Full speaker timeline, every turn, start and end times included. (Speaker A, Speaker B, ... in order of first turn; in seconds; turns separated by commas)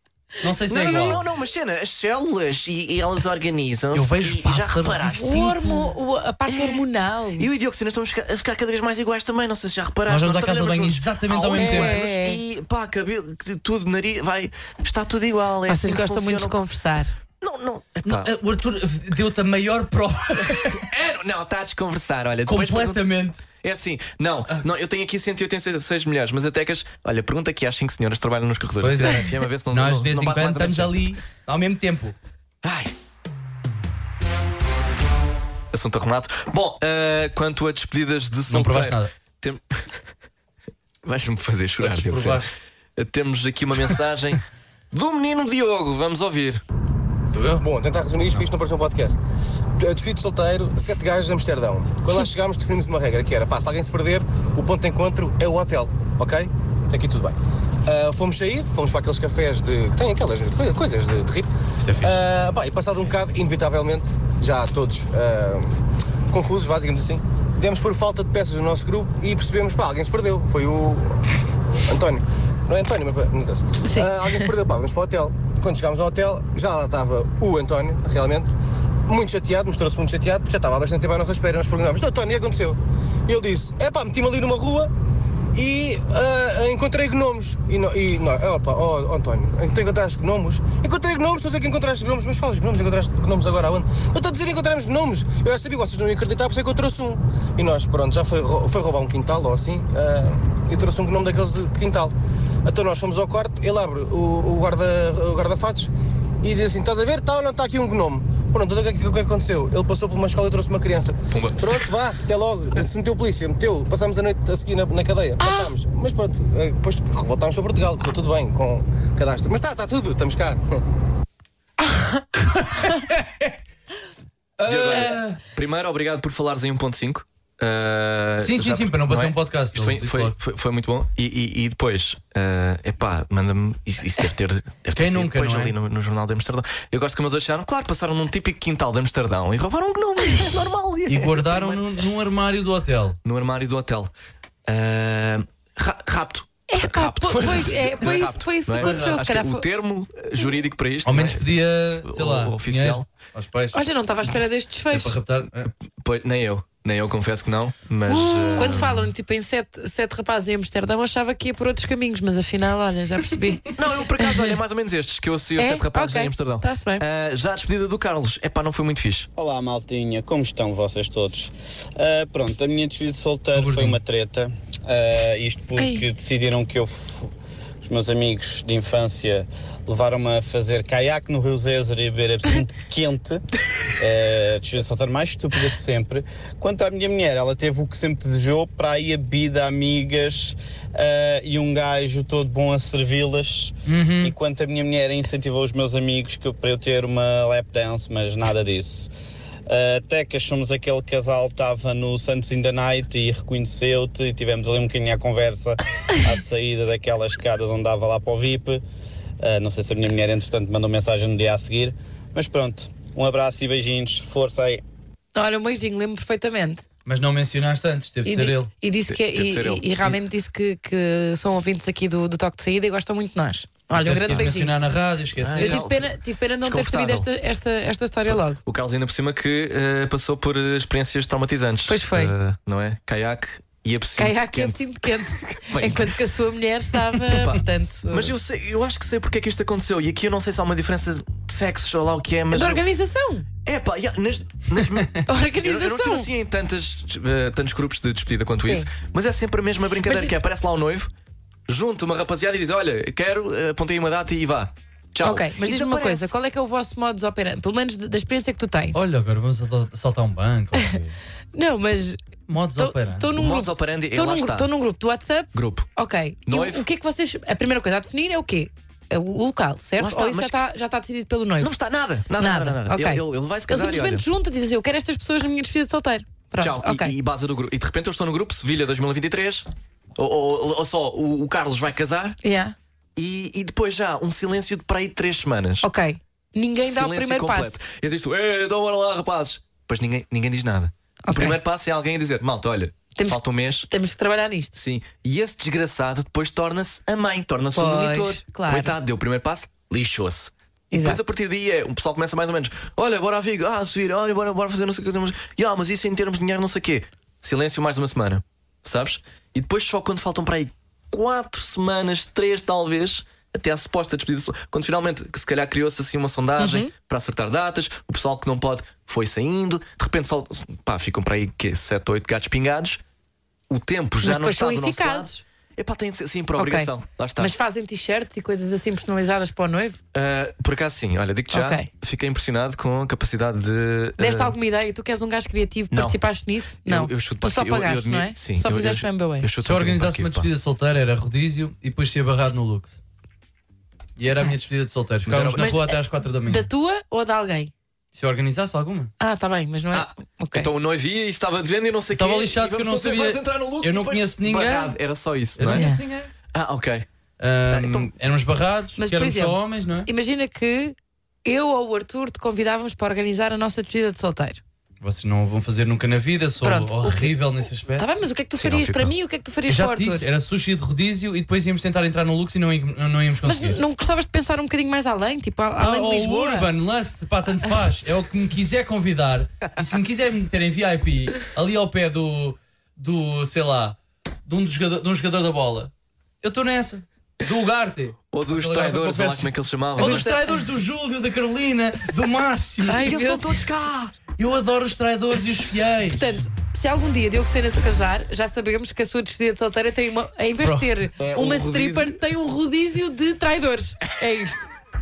Speaker A: 0.4-1.2, Speaker B: 0.7-5.5, Speaker C: 0.8-1.1, Speaker A: 3.9-5.7, Speaker C: 5.2-7.5, Speaker B: 6.5-6.8, Speaker B: 7.4-16.6, Speaker A: 10.1-12.0, Speaker C: 11.6-12.4, Speaker C: 15.7-17.1, Speaker B: 17.4-18.3, Speaker A: 18.0-20.9, Speaker B: 20.5-31.1, Speaker A: 22.5-23.4, Speaker A: 28.8-32.1, Speaker B: 32.6-32.9, Speaker B: 35.7-39.9, Speaker A: 38.5-39.1, Speaker B: 41.0-46.6, Speaker A: 41.8-42.5, Speaker A: 47.3-47.6, Speaker D: 47.6-49.2, Speaker D: 49.8-61.5, Speaker A: 61.8-62.1, Speaker D: 62.0-65.8, Speaker D: 66.3-71.2, Speaker D: 71.8-78.5, Speaker C: 73.8-74.5, Speaker D: 79.1-84.9, Speaker D: 85.5-102.1, Speaker D: 102.6-105.9, Speaker D: 106.4-120.8, Speaker B: 111.3-111.8, Speaker C: 115.4-115.7, Speaker A: 122.4-123.5, Speaker A: 124.6-125.4, Speaker B: 124.7-142.0, Speaker A: 128.4-130.3, Speaker A: 134.9-135.8, Speaker A: 141.1-143.2, Speaker B: 143.2-144.1, Speaker B: 144.7-151.5, Speaker C: 146.7-149.7, Speaker A: 148.7-149.2, Speaker A: 151.0-153.8, Speaker B: 152.0-153.0, Speaker C: 153.7-155.2, Speaker A: 154.8-155.7, Speaker B: 156.0-159.0, Speaker C: 158.1-164.5, Speaker A: 158.6-159.0, Speaker B: 163.7-169.3, Speaker C: 165.6-167.0, Speaker E: 169.4-177.3, Speaker A: 173.5-174.0, Speaker C: 175.8-176.1, Speaker E: 177.8-183.4, Speaker E: 184.0-199.1, Speaker A: 193.8-194.3, Speaker E: 199.7-208.8, Speaker E: 209.4-214.8, Speaker C: 215.3-216.8, Speaker A: 217.1-218.7, Speaker C: 218.2-224.8, Speaker B: 219.1-220.1, Speaker A: 223.9-226.0, Speaker B: 225.4-227.3, Speaker C: 225.6-228.6, Speaker B: 228.3-236.2, Speaker C: 231.9-232.3, Speaker C: 234.2-238.3, Speaker B: 237.2-242.8, Speaker C: 242.5-243.5, Speaker B: 243.6-251.1, Speaker C: 245.2-246.3, Speaker C: 248.6-248.9, Speaker C: 250.0-250.3, Speaker B: 251.7-256.3, Speaker C: 255.2-259.0, Speaker A: 258.9-261.1, Speaker C: 261.5-262.2, Speaker A: 262.5-263.3, Speaker C: 262.8-271.7, Speaker B: 263.3-264.7, Speaker B: 265.5-265.9, Speaker B: 266.5-266.9, Speaker B: 270.0-270.6, Speaker B: 271.6-274.2, Speaker C: 272.4-277.1, Speaker B: 276.6-279.6, Speaker B: 280.2-282.4, Speaker C: 282.4-282.7, Speaker B: 283.1-285.9, Speaker C: 285.8-287.8, Speaker B: 286.8-293.9, Speaker C: 291.2-291.6, Speaker C: 293.1-294.8, Speaker B: 294.7-323.0, Speaker C: 297.7-298.9, Speaker C: 300.9-301.3, Speaker C: 316.6-316.9, Speaker B: 323.7-327.5, Speaker C: 324.2-325.4, Speaker C: 326.6-330.0, Speaker B: 330.1-334.6, Speaker C: 331.5-331.9, Speaker C: 334.2-339.5, Speaker B: 335.9-336.2, Speaker B: 336.8-340.5, Speaker A: 339.6-343.0, Speaker A: 344.2-346.7, Speaker B: 345.2-345.7, Speaker C: 345.6-347.7, Speaker A: 348.1-349.1, Speaker C: 349.2-350.7, Speaker B: 349.9-355.9, Speaker A: 352.1-355.0, Speaker A: 355.6-356.3, Speaker C: 355.7-356.0, Speaker B: 356.5-357.1, Speaker A: 357.4-360.1, Speaker B: 357.7-358.1, Speaker C: 359.0-364.6, Speaker A: 365.0-368.1, Speaker C: 366.6-367.3, Speaker C: 367.9-370.3, Speaker B: 368.5-369.1, Speaker A: 369.7-373.8, Speaker C: 373.4-376.7, Speaker A: 375.8-393.1, Speaker B: 388.3-390.4, Speaker C: 390.0-390.6, Speaker C: 392.9-393.5, Speaker B: 392.9-394.1, Speaker A: 394.4-396.4, Speaker C: 396.1-404.6, Speaker A: 400.6-401.0, Speaker B: 401.2-402.2